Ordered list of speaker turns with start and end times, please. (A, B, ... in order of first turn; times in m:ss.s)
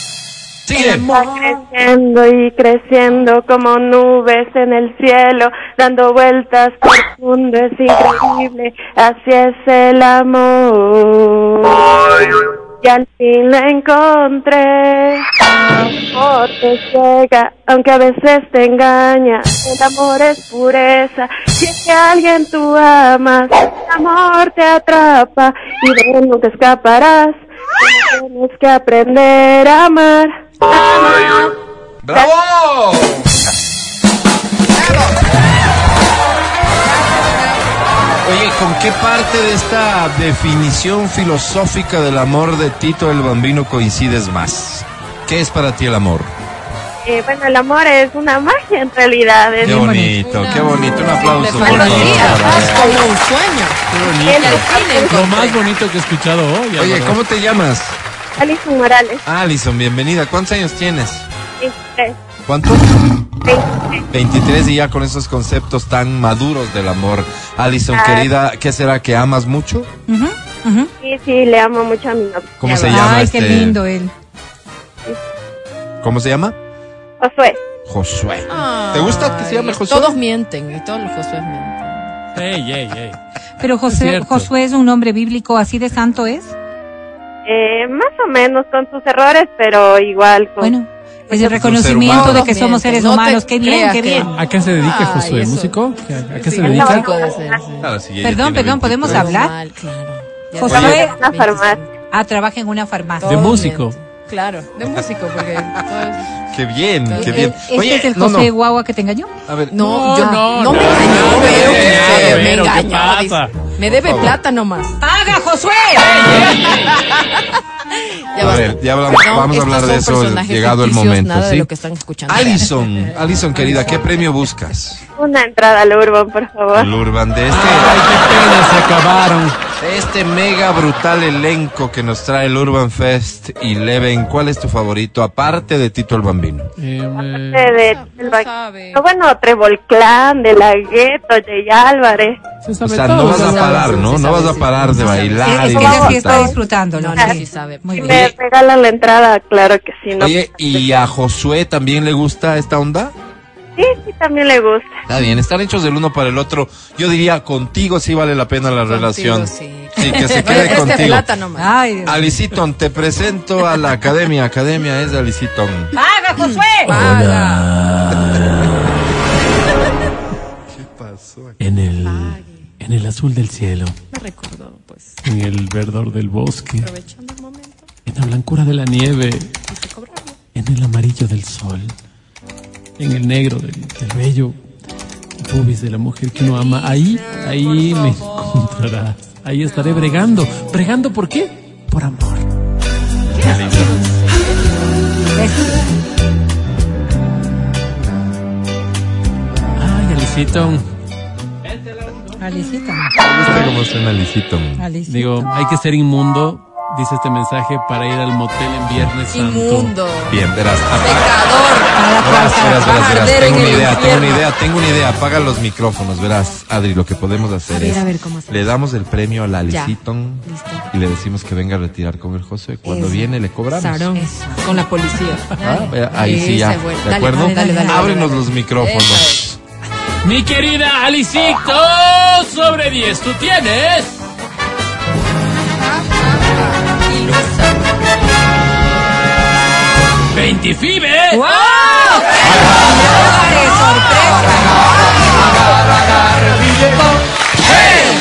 0:00.7-0:01.1 A
0:00.9-0:11.8 B
0:12.8-0:15.2 B
0:16.1-0:31.5 B
0:32.0-0:33.4 A
0:38.2-0:46.3 A
0:47.0-0:49.8 B
0:49.6-0:50.2 C
0:49.6-0:52.8 A
0:50.2-0:53.8 D
0:51.6-0:53.1 B
0:51.8-0:52.4 E
0:53.8-0:57.2 E
0:54.2-0:55.7 B
0:54.4-0:55.6 D
0:56.8-0:58.0 A
0:58.4-0:59.2 B
0:59.3-1:01.3 A
1:01.6-1:02.2 B
1:02.5-1:02.8 A
1:03.5-1:04.0 B
1:04.1-1:09.9 A
1:07.9-1:08.3 B
1:10.1-1:10.9 C
1:11.0-1:12.6 B
1:12.6-1:13.8 A
1:12.6-1:13.0 D
1:12.9-1:14.1 C
1:16.0-1:16.6 A
1:17.2-1:17.6 B
1:17.9-1:20.2 A
1:18.5-1:22.1 D
1:22.3-1:23.2 E
1:23.6-1:26.6 C
1:23.9-1:24.5 E
1:27.5-1:30.7 B
1:30.6-1:34.3 C
1:31.5-1:32.5 A
1:32.1-1:34.3 D
1:34.2-1:37.1 E
1:34.8-1:35.8 D
1:36.4-1:37.9 D
1:36.6-1:37.6 B
1:37.8-1:39.3 A
1:38.2-1:39.5 C
1:39.2-1:41.9 D
1:40.6-1:41.2 C
1:40.7-1:41.0 A
1:40.7-1:41.8 B
1:42.1-1:43.7 C
1:43.2-1:46.3 D
1:43.2-1:44.0 E
1:46.5-1:48.5 A
1:47.1-1:47.5 D
1:47.1-1:49.3 C
1:49.5-1:49.7 A
1:49.7-1:55.0 D
1:49.8-1:53.7 E
1:51.3-1:52.6 A
1:53.9-1:54.4 A
1:55.0-1:56.8 C
1:56.3-1:56.9 E
1:56.9-1:57.2 D
1:58.3-2:02.6 D
1:58.4-2:01.7 A
2:02.3-2:05.0 A
2:02.8-2:04.1 E
2:05.2-2:06.9 B
2:06.7-2:08.1 A
2:07.5-2:09.6 E
2:09.8-2:16.7 A
2:16.8-2:17.8 E
2:17.2-2:22.4 B
2:17.8-2:19.0 D
2:22.6-2:24.1 E
2:22.8-2:26.5 A
2:23.5-2:25.5 D
2:25.4-2:28.3 C
2:25.6-2:26.5 B
2:27.0-2:28.2 D
2:28.0-2:30.4 B
2:30.2-2:33.1 A
2:33.8-2:35.0 B
2:35.1-2:41.3 A
2:38.9-2:41.7 D
2:40.2-2:42.3 C
2:42.0-2:45.9 A
2:46.0-2:47.0 C
2:46.5-2:47.6 D
2:46.8-2:48.9 E
2:48.1-2:48.4 A
2:50.7-2:51.6 A
2:51.6-2:54.0 E
2:52.0-2:52.4 D
2:54.1-2:55.2 D
2:55.2-2:56.9 E
2:56.8-2:57.8 D
2:58.1-2:59.7 E
2:59.7-3:00.4 D
3:00.5-3:02.0 E
3:03.0-3:04.6 E
3:05.4-3:12.5 E
3:13.4-3:14.0 A
3:13.5-3:13.8 E
3:15.4-3:15.9 C
3:19.8-3:20.9 E
3:22.4-3:23.1 C
3:23.2-3:24.9 A
3:24.8-3:25.5 C
3:25.1-3:30.0 E
3:29.3-3:30.3 D
3:30.3-3:31.3 A
3:30.9-3:31.9 D
3:31.9-3:33.8 C
3:32.2-3:44.1 A
3:33.0-3:34.5 D
3:37.7-3:38.7 D
3:39.7-3:40.8 D
3:42.8-3:45.5 D
3:44.2-3:44.9 C
3:45.5-3:46.5 C
3:45.6-3:49.6 A
3:46.2-3:49.4 D
3:47.3-3:48.2 C
3:50.2-3:54.2 E
3:57.1-3:57.8 D
4:00.3-4:01.4 E
4:01.3-4:05.2 C